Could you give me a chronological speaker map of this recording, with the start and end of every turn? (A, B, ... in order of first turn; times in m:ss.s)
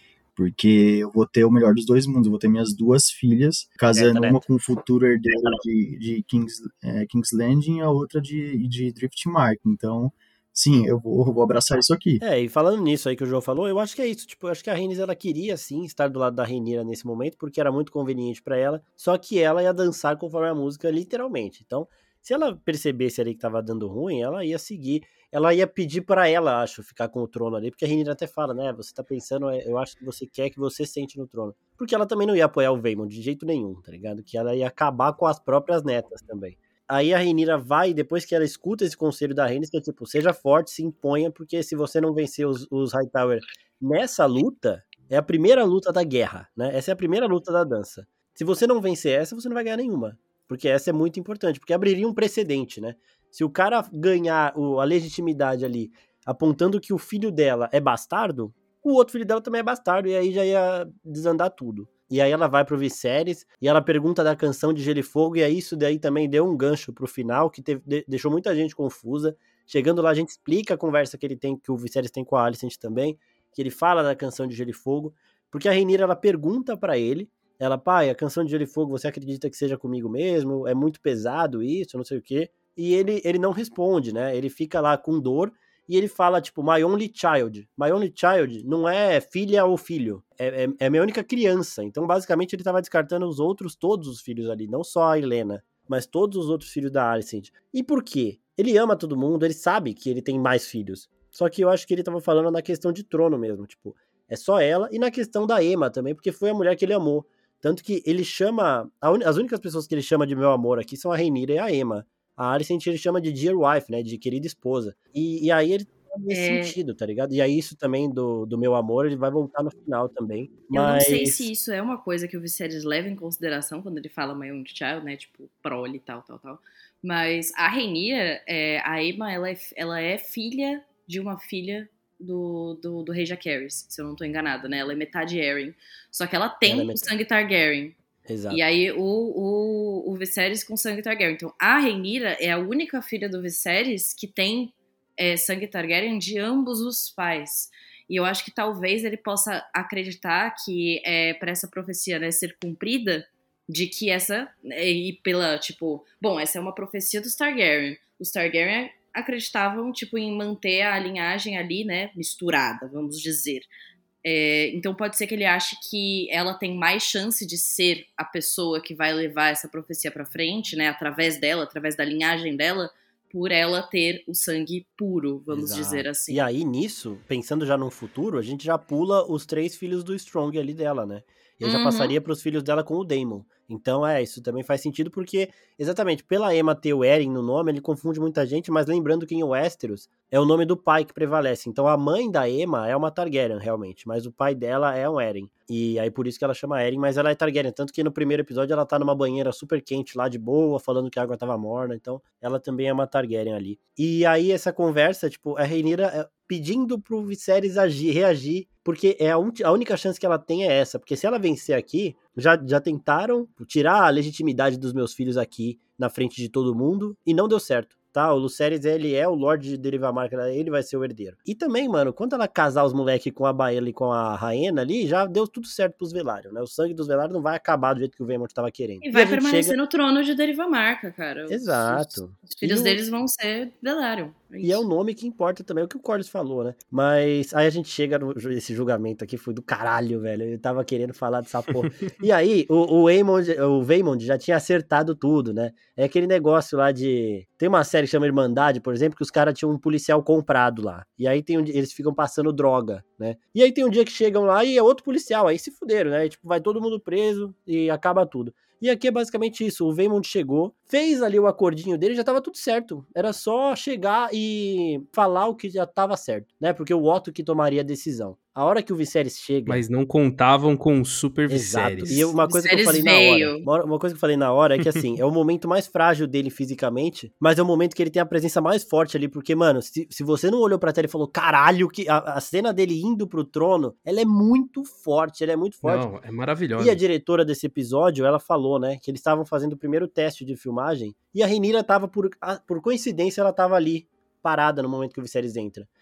0:00.4-0:12.2 A
0:03.9-0:04.4 B
0:12.2-2:01.5 B
1:56.3-1:56.8 C
2:00.7-2:18.0 C
2:16.6-2:17.1 B
2:18.3-2:18.6 B
2:18.5-2:43.7 C
2:44.2-2:56.4 C
2:55.5-3:49.8 B
3:01.6-3:02.1 C
3:49.0-3:54.9 C
3:51.5-3:53.0 B
3:54.6-4:29.8 B
4:01.7-4:02.1 D
4:29.7-4:32.3 D
4:31.5-4:46.1 B
4:32.1-4:33.7 C
4:45.8-4:47.0 D
4:46.8-4:55.9 B